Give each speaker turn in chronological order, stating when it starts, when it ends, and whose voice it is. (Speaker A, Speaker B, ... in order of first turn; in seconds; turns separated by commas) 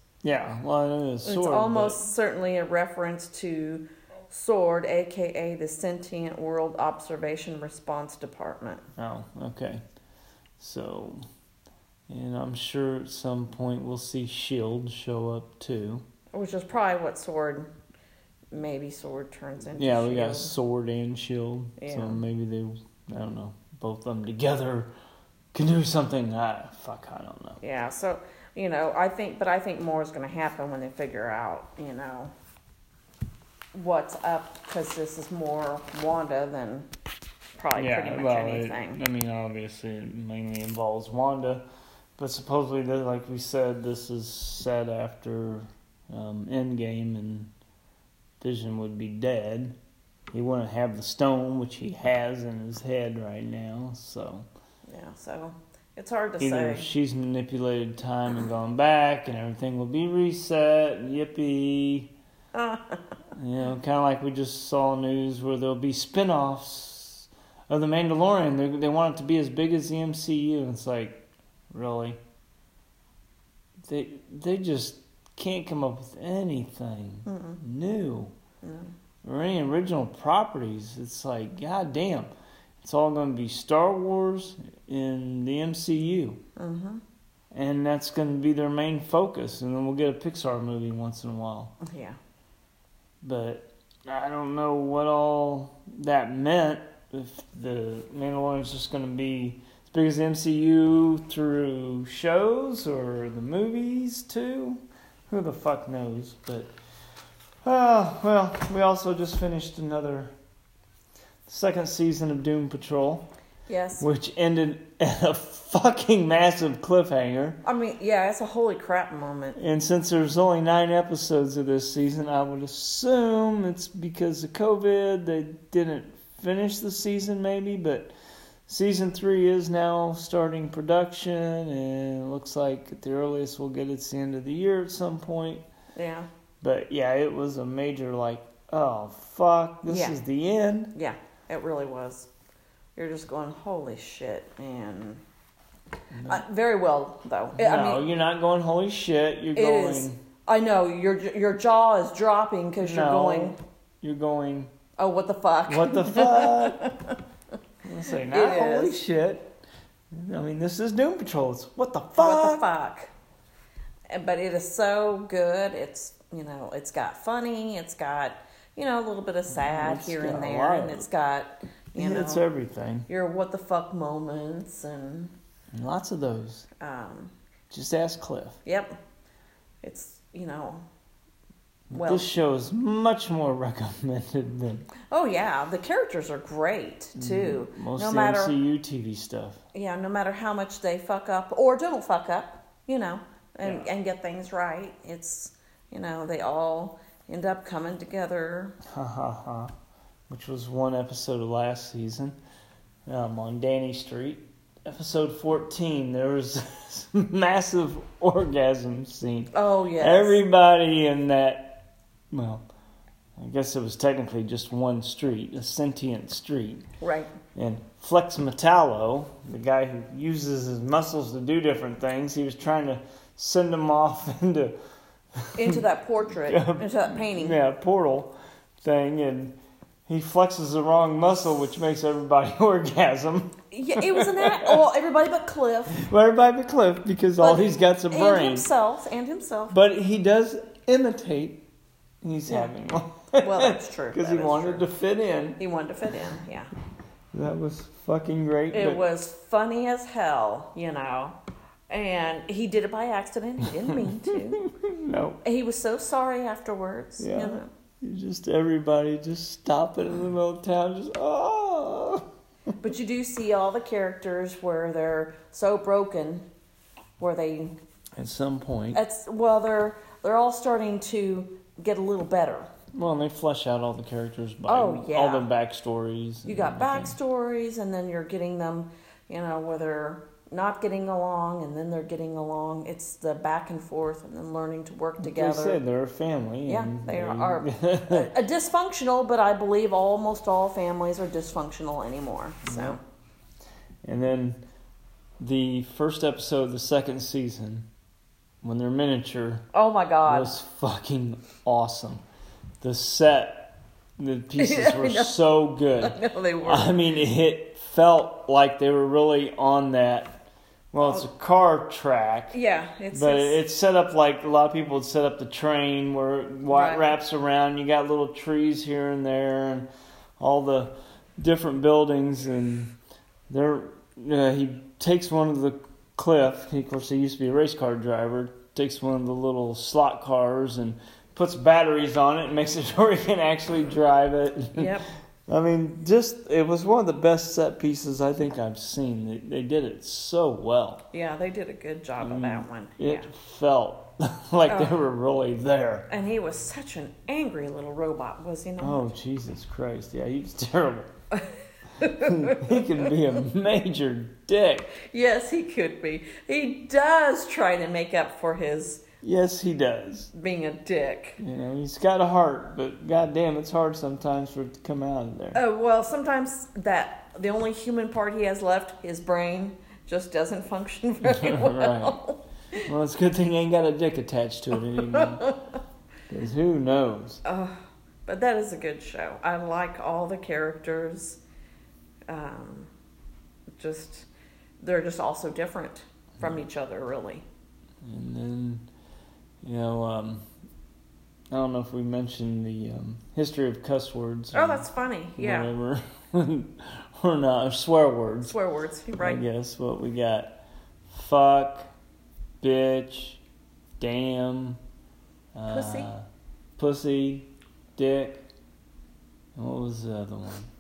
Speaker A: 0.2-2.0, Speaker B: 1.2-8.9, Speaker A: 9.0-9.8, Speaker A: 10.6-11.3, Speaker A: 12.1-16.0, Speaker B: 16.3-17.7, Speaker B: 18.5-20.5, Speaker A: 19.7-24.9, Speaker B: 21.8-22.2, Speaker A: 25.5-27.6, Speaker B: 27.6-32.3, Speaker B: 33.7-36.9, Speaker B: 37.6-39.0, Speaker A: 37.8-41.6, Speaker A: 42.2-47.5, Speaker A: 48.4-49.8, Speaker A: 50.3-54.5, Speaker B: 54.9-56.9, Speaker A: 56.4-62.1, Speaker B: 62.5-63.0, Speaker A: 63.3-72.2, Speaker A: 73.9-78.3, Speaker B: 77.2-77.6, Speaker B: 78.6-78.9, Speaker A: 79.2-82.3, Speaker A: 82.8-86.4, Speaker B: 86.5-87.0, Speaker A: 87.5-91.8, Speaker B: 91.8-92.2, Speaker A: 93.2-106.7, Speaker A: 107.6-110.3, Speaker A: 111.5-113.3, Speaker B: 113.7-114.0, Speaker A: 114.0-117.6, Speaker B: 117.6-119.6, Speaker A: 119.5-128.1, Speaker A: 128.7-135.6, Speaker B: 135.9-136.3, Speaker A: 136.6-140.9, Speaker B: 139.8-140.2, Speaker B: 140.9-142.3, Speaker B: 143.0-145.2, Speaker A: 146.2-146.4, Speaker B: 146.3-148.1, Speaker A: 147.6-150.2, Speaker B: 149.5-153.6, Speaker A: 152.8-154.7, Speaker B: 155.0-157.2, Speaker A: 155.7-156.9, Speaker A: 157.8-159.6, Speaker B: 158.2-159.0, Speaker A: 160.1-162.7, Speaker B: 162.2-163.1, Speaker B: 164.1-172.4, Speaker A: 169.5-171.1, Speaker A: 172.0-173.1, Speaker B: 173.1-175.3, Speaker A: 175.7-176.7, Speaker B: 176.8-177.3, Speaker A: 177.7-178.6, Speaker B: 178.7-179.0, Speaker B: 179.8-180.8, Speaker A: 181.9-184.9, Speaker B: 181.9-182.3, Speaker B: 185.1-188.6, Speaker A: 187.2-189.6, Speaker B: 189.7-198.8, Speaker A: 198.8-199.7, Speaker A: 200.3-202.4, Speaker A: 203.1-212.6, Speaker B: 209.5-210.4, Speaker A: 213.4-216.8, Speaker B: 217.0-217.3, Speaker A: 217.5-224.8, Speaker A: 225.3-225.8, Speaker B: 225.6-227.6, Speaker A: 226.4-234.8, Speaker B: 233.7-236.0, Speaker A: 235.9-238.7, Speaker B: 237.4-239.8, Speaker A: 239.7-241.7, Speaker A: 242.2-245.6, Speaker B: 242.5-242.7, Speaker B: 243.4-244.8, Speaker B: 245.6-246.7, Speaker A: 247.3-249.0, Speaker B: 248.7-251.4, Speaker B: 251.9-254.6, Speaker A: 254.3-255.4, Speaker B: 255.4-257.7, Speaker A: 257.2-262.2, Speaker B: 262.8-266.5, Speaker B: 267.2-267.8, Speaker A: 268.2-269.0, Speaker B: 268.9-272.7, Speaker A: 272.9-277.2, Speaker B: 274.7-275.5, Speaker B: 276.4-285.8, Speaker A: 285.2-288.3, Speaker B: 286.7-293.0, Speaker A: 292.6-293.0, Speaker A: 294.0-294.6, Speaker A: 295.4-297.9, Speaker A: 298.6-299.7, Speaker B: 299.7-300.5, Speaker A: 300.2-302.2, Speaker A: 302.8-312.6, Speaker B: 304.6-305.4, Speaker B: 306.0-306.9, Speaker B: 312.5-313.6, Speaker A: 313.1-322.9, Speaker B: 316.7-317.1, Speaker A: 323.5-341.0, Speaker B: 334.8-335.1, Speaker B: 341.1-343.3, Speaker A: 342.2-346.1, Speaker B: 344.7-345.0, Speaker B: 346.1-349.1, Speaker A: 348.8-351.1, Speaker B: 351.3-353.1, Speaker A: 352.0-355.0, Speaker B: 355.0-359.0, Speaker A: 359.2-360.3, Speaker B: 360.3-361.4, Speaker A: 361.4-365.6, Speaker B: 365.5-372.8, Speaker A: 371.2-372.2, Speaker A: 372.7-375.5, Speaker B: 375.1-375.6, Speaker A: 376.3-377.4, Speaker B: 377.4-381.4, Speaker B: 382.3-382.9, Speaker B: 383.8-384.3, Speaker B: 384.8-387.4, Speaker A: 388.0-388.9, Speaker A: 389.6-390.4, Speaker A: 391.5-398.6, Speaker B: 394.5-395.7, Speaker B: 398.5-399.4, Speaker A: 399.2-401.9, Speaker A: 402.6-403.4, Speaker A: 404.0-404.8, Speaker A: 405.5-406.2, Speaker B: 405.7-406.1, Speaker A: 406.8-408.5, Speaker A: 409.6-410.7